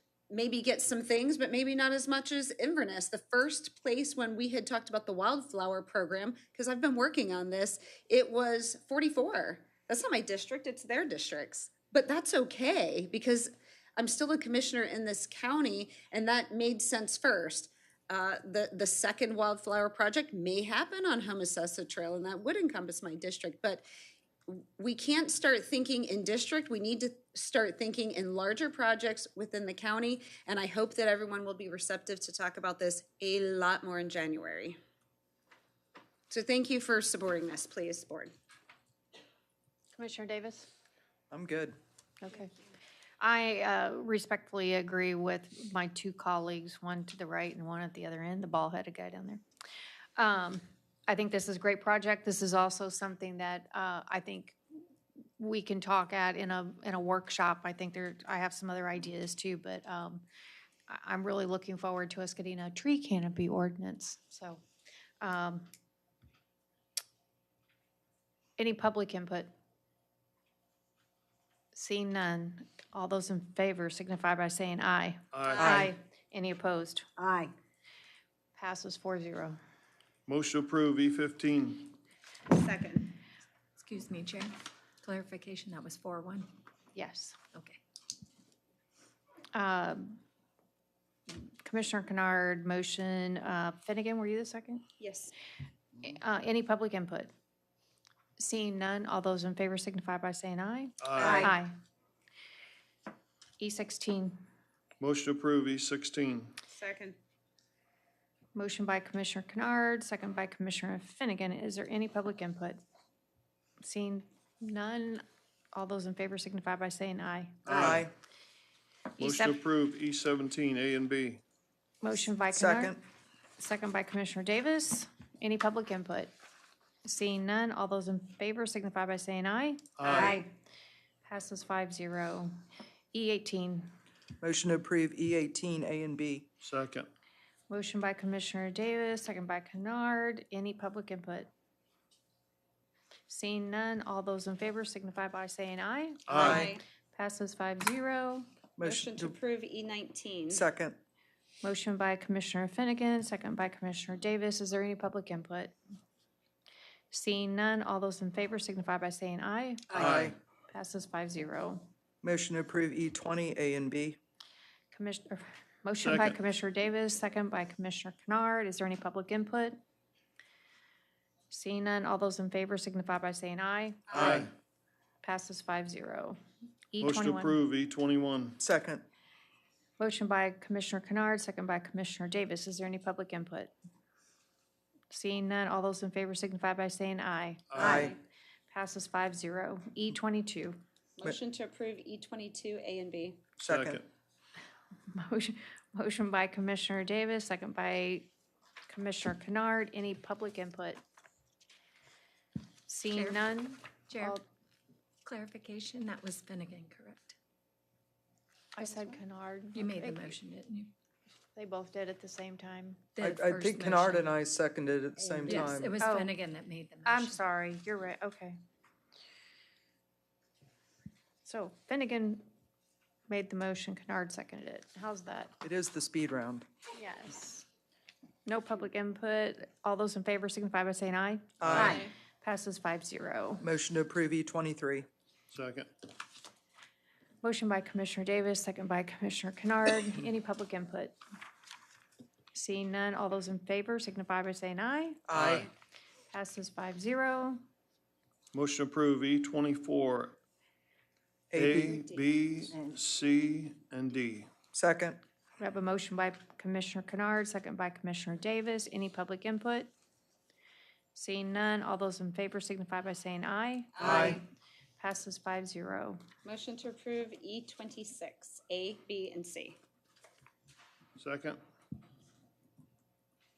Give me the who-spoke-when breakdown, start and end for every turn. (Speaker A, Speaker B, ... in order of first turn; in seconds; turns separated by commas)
Speaker A: 0.3-23.9, Speaker A: 24.5-34.8, Speaker A: 36.3-38.3, Speaker B: 39.9-40.7, Speaker C: 41.3-41.8, Speaker B: 42.2-42.5, Speaker B: 43.2-49.4, Speaker B: 50.2-54.6, Speaker B: 55.4-60.2, Speaker B: 60.9-64.6, Speaker B: 65.2-65.7, Speaker B: 68.6-69.5, Speaker B: 71.7-77.1, Speaker D: 75.3-75.8, Speaker A: 75.4-75.9, Speaker A: 77.2-77.5, Speaker B: 78.5-79.6, Speaker D: 80.3-81.9, Speaker A: 82.5-83.1, Speaker E: 83.8-86.5, Speaker B: 86.9-87.4, Speaker E: 87.5-87.8, Speaker B: 89.5-90.2, Speaker B: 91.3-94.8, Speaker A: 95.0-95.3, Speaker B: 96.0-97.3, Speaker B: 98.4-101.7, Speaker D: 101.0-101.5, Speaker A: 101.2-101.5, Speaker B: 103.6-104.4, Speaker D: 105.0-106.5, Speaker A: 106.7-107.2, Speaker B: 108.5-112.8, Speaker B: 113.8-117.7, Speaker D: 117.6-118.1, Speaker C: 117.7-118.1, Speaker B: 119.2-119.6, Speaker D: 119.2-121.4, Speaker B: 122.0-123.0, Speaker C: 122.5-123.0, Speaker B: 123.6-126.3, Speaker B: 127.0-130.4, Speaker D: 130.0-130.4, Speaker A: 130.1-130.4, Speaker B: 131.3-132.5, Speaker B: 133.1-133.9, Speaker C: 134.4-136.5, Speaker D: 136.6-137.1, Speaker B: 137.7-141.5, Speaker B: 143.3-146.5, Speaker D: 146.3-146.7, Speaker A: 146.3-146.8, Speaker C: 146.4-146.7, Speaker B: 147.1-148.5, Speaker C: 148.8-149.3, Speaker A: 148.8-150.7, Speaker C: 150.5-151.0, Speaker B: 151.6-155.8, Speaker B: 157.1-160.1, Speaker C: 159.9-160.3, Speaker D: 159.9-160.3, Speaker B: 160.7-161.9, Speaker C: 162.2-164.2, Speaker B: 164.9-169.8, Speaker D: 166.0-166.4, Speaker B: 171.5-174.5, Speaker D: 174.1-174.5, Speaker B: 175.2-176.4, Speaker B: 176.9-177.6, Speaker D: 177.0-178.6, Speaker C: 178.6-179.0, Speaker B: 180.0-183.7, Speaker B: 185.1-188.1, Speaker D: 187.7-188.1, Speaker A: 187.8-188.2, Speaker C: 187.8-188.1, Speaker B: 188.7-190.8, Speaker A: 191.2-193.4, Speaker C: 193.6-194.0, Speaker D: 193.6-194.0, Speaker B: 195.1-198.3, Speaker B: 198.9-201.0, Speaker B: 202.9-204.4, Speaker E: 203.1-203.4, Speaker E: 204.1-204.4, Speaker E: 205.2-207.3, Speaker B: 208.8-210.3, Speaker E: 209.7-210.9, Speaker B: 211.6-213.1, Speaker E: 213.2-214.2, Speaker C: 213.2-215.9, Speaker E: 215.4-217.4, Speaker B: 216.0-216.4, Speaker B: 217.1-218.6, Speaker B: 221.4-222.4, Speaker B: 223.3-225.6, Speaker C: 225.6-226.7, Speaker B: 226.9-227.7, Speaker B: 228.5-233.7, Speaker C: 231.6-232.0, Speaker D: 231.7-232.0, Speaker A: 231.7-232.1, Speaker C: 233.6-235.1, Speaker D: 235.5-235.9, Speaker B: 237.4-241.2, Speaker B: 242.5-245.3, Speaker C: 245.3-245.7, Speaker D: 245.3-245.7, Speaker B: 246.3-247.6, Speaker D: 248.5-250.3, Speaker C: 251.5-252.0, Speaker D: 251.5-254.5, Speaker A: 251.8-252.3, Speaker C: 254.7-255.2, Speaker B: 255.6-259.9, Speaker B: 261.1-264.4, Speaker A: 264.0-264.4, Speaker C: 264.0-264.4, Speaker B: 265.0-266.2, Speaker A: 266.4-269.8, Speaker D: 271.2-271.6